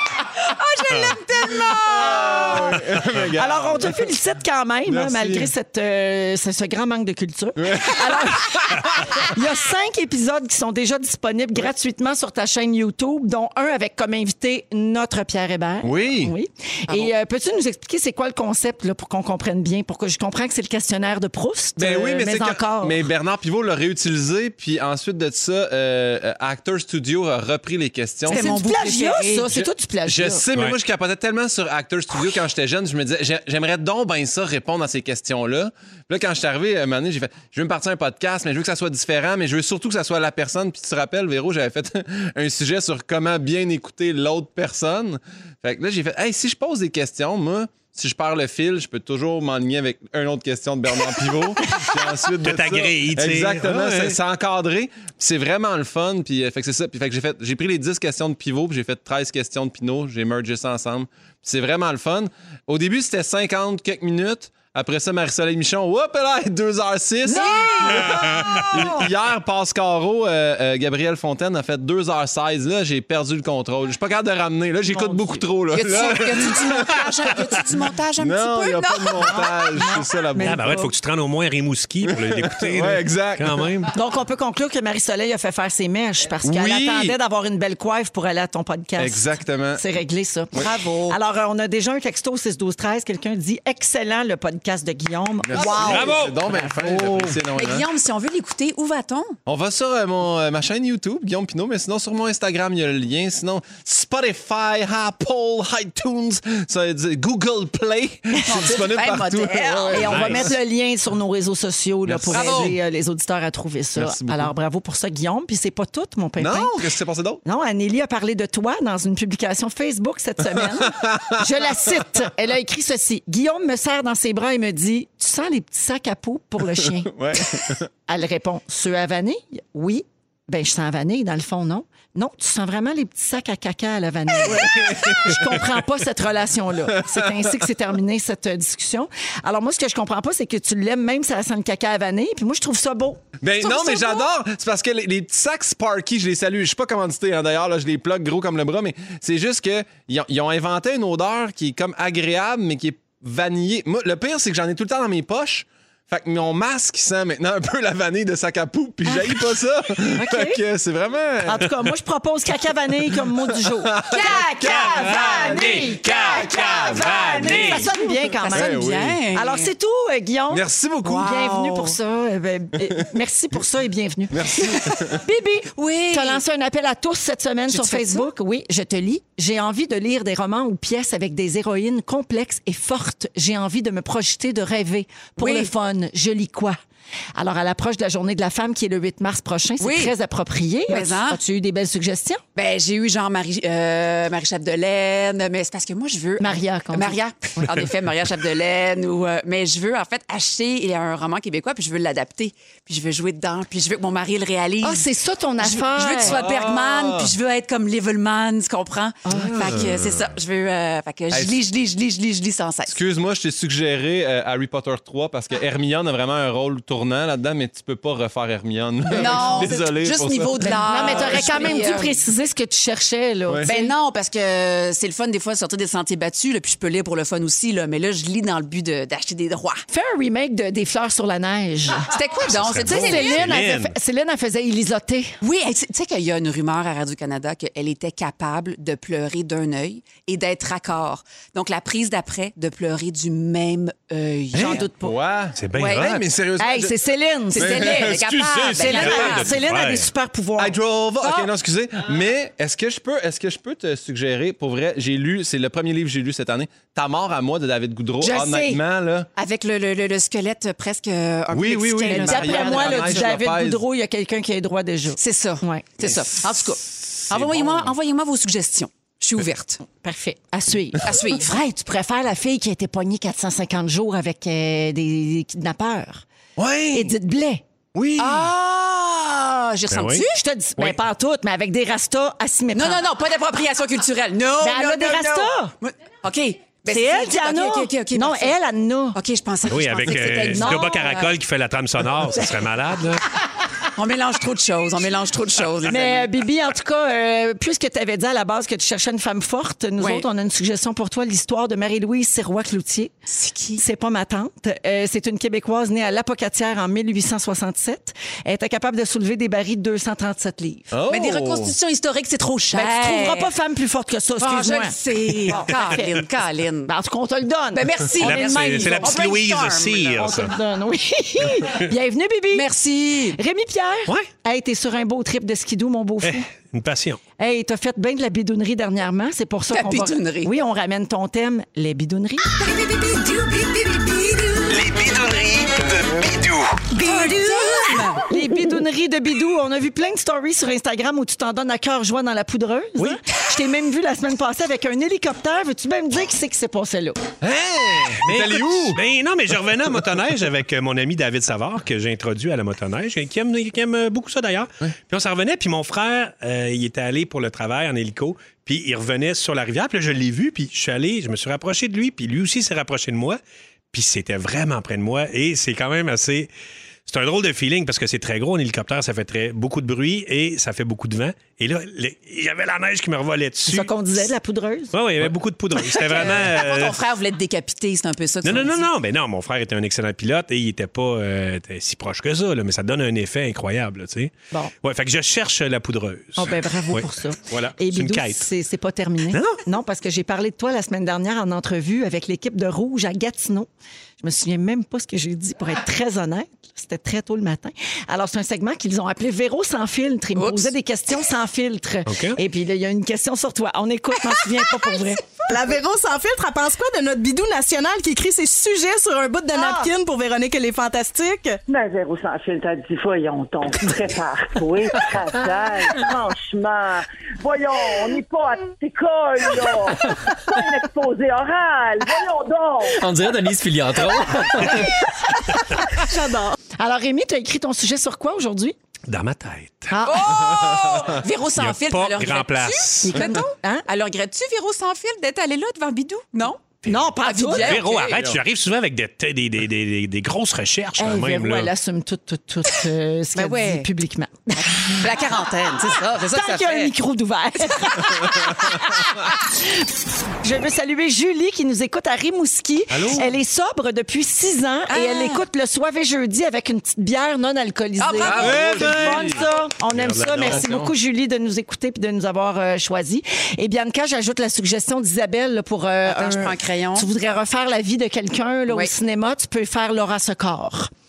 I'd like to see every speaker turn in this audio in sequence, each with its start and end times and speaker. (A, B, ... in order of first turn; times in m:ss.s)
0:00.4-0:02.7 A
0:01.6-0:04.1 B
0:01.9-0:02.8 C
0:03.4-0:23.0 C
0:04.9-0:05.5 B
0:07.6-0:09.3 B
0:15.8-0:16.3 B
0:21.8-0:28.4 B
0:28.3-0:29.5 A
0:28.3-0:30.4 C
0:29.5-1:17.6 B
0:52.4-0:54.2 D
1:07.2-1:08.1 A
1:07.3-1:09.1 C
1:14.9-1:15.4 C
1:15.7-1:19.5 A
1:18.2-1:20.8 B
1:19.3-1:20.9 C
1:20.4-1:23.9 D
1:22.1-1:23.7 B
1:23.9-1:37.4 C
1:26.4-1:27.2 B
1:29.0-1:29.8 B
1:30.6-1:31.2 A
1:35.5-1:37.9 B
1:35.6-1:36.1 A
1:35.8-1:36.5 D
1:37.5-1:39.3 A
1:39.5-1:50.5 B
1:48.4-1:50.4 A
1:49.9-1:56.8 C
1:50.1-1:50.3 D
1:52.1-1:52.8 B
1:52.3-1:52.7 A
1:54.0-1:54.5 B
1:56.4-1:57.4 B
1:57.4-2:24.2 C
2:00.9-2:01.4 B
2:07.1-2:07.9 B
2:14.4-2:15.6 B
2:23.4-2:41.8 B
2:39.1-2:39.3 C
2:40.1-2:40.6 C
2:41.4-3:06.8 C
2:43.6-2:47.8 B
2:44.1-2:49.7 A
2:45.2-2:47.9 D
2:48.5-2:49.2 B
2:50.5-2:51.3 B
2:51.0-2:52.0 A
2:54.3-2:55.2 B
2:55.8-2:56.4 A
2:57.7-2:58.3 A
3:05.4-3:05.7 A
3:07.4-3:12.4 C
3:09.8-3:10.1 A
3:10.9-3:11.4 A
3:12.6-3:25.1 A
3:16.4-3:17.8 C
3:24.8-3:26.4 C
3:25.6-3:33.0 A
3:26.2-3:27.3 B
3:29.3-3:29.8 C
3:29.3-3:30.3 B
3:31.3-3:31.6 B
3:32.9-3:41.8 B
3:39.1-3:39.7 C
3:39.1-3:42.2 A
3:40.6-3:43.9 C
3:43.6-3:49.8 A
3:49.9-3:52.1 C
3:52.1-3:53.4 A
3:52.5-3:53.9 D
3:52.9-3:55.4 C
3:55.4-4:04.9 A
4:04.5-4:05.2 C
4:05.0-4:07.0 B
4:05.6-4:06.2 D
4:05.8-4:06.2 A
4:06.6-4:07.9 C
4:07.5-4:09.6 A
4:07.5-4:09.6 B
4:08.8-4:10.8 C
4:09.1-4:10.1 D
4:10.6-4:19.3 B
4:11.2-4:11.5 A
4:18.2-4:18.8 A
4:19.4-4:23.4 A
4:21.5-4:23.8 B
4:22.1-4:25.9 C
4:25.2-4:29.8 A
4:26.0-4:26.4 B
4:26.9-4:27.9 B
4:30.0-4:36.2 C
4:31.0-4:31.5 A
4:36.6-4:37.1 B
4:36.9-4:37.6 C
4:37.9-4:38.5 B
4:38.2-4:40.4 A
4:39.9-4:40.2 D
4:40.3-4:43.1 C
4:42.8-4:48.6 A
4:44.6-4:45.7 C
4:46.9-4:49.2 C
4:49.1-4:51.3 A
4:49.7-4:53.2 D
4:50.4-4:51.1 C
4:53.9-4:56.3 A
4:55.9-5:03.1 C
5:00.0-5:00.2 A
5:03.3-5:03.8 A
5:03.8-5:10.9 C
5:10.9-5:11.7 B
5:11.1-5:13.5 A
5:12.7-5:16.1 C
5:14.4-5:16.9 A
5:16.9-5:19.2 C
5:17.7-5:20.3 A
5:18.2-5:20.6 D
5:20.1-5:26.4 C
5:22.5-5:23.4 A
5:26.2-5:27.2 D
5:27.4-5:32.5 C
5:29.7-5:30.5 A
5:32.5-5:35.4 A
5:34.8-5:36.7 B
5:36.9-5:47.2 C
5:37.0-5:38.3 A
5:47.4-5:49.0 B
5:48.2-6:03.4 D
6:03.9-6:06.5 D
6:07.1-6:13.9 D
6:13.7-6:14.9 C
6:14.9-6:17.0 D
6:15.9-6:18.9 A
6:18.4-6:28.5 D
6:26.4-6:33.7 C
6:29.3-6:29.6 D
6:34.2-6:45.2 C
6:40.4-6:40.7 A
6:42.1-6:42.4 D
6:45.5-6:51.6 E
6:49.6-6:49.9 C
6:51.7-7:03.1 F
7:02.9-7:05.0 B
7:06.0-7:06.6 E
7:06.8-7:08.8 C
7:09.1-7:09.9 D
7:09.9-7:10.6 C
7:10.0-7:16.6 A
7:10.4-7:11.2 B
7:11.6-7:13.4 D
7:13.0-7:13.8 C
7:16.8-7:17.8 C
7:16.8-7:21.7 D
7:17.2-7:18.3 A
7:21.0-7:25.1 C
7:23.4-7:23.9 A
7:24.6-7:26.9 A
7:25.8-7:29.9 C
7:30.4-7:50.9 C
7:32.9-7:33.3 D
7:34.9-7:35.4 A
7:38.0-7:38.8 A
7:38.2-7:39.4 B
7:38.7-7:40.8 D
7:40.4-7:40.9 B
7:46.1-7:47.1 A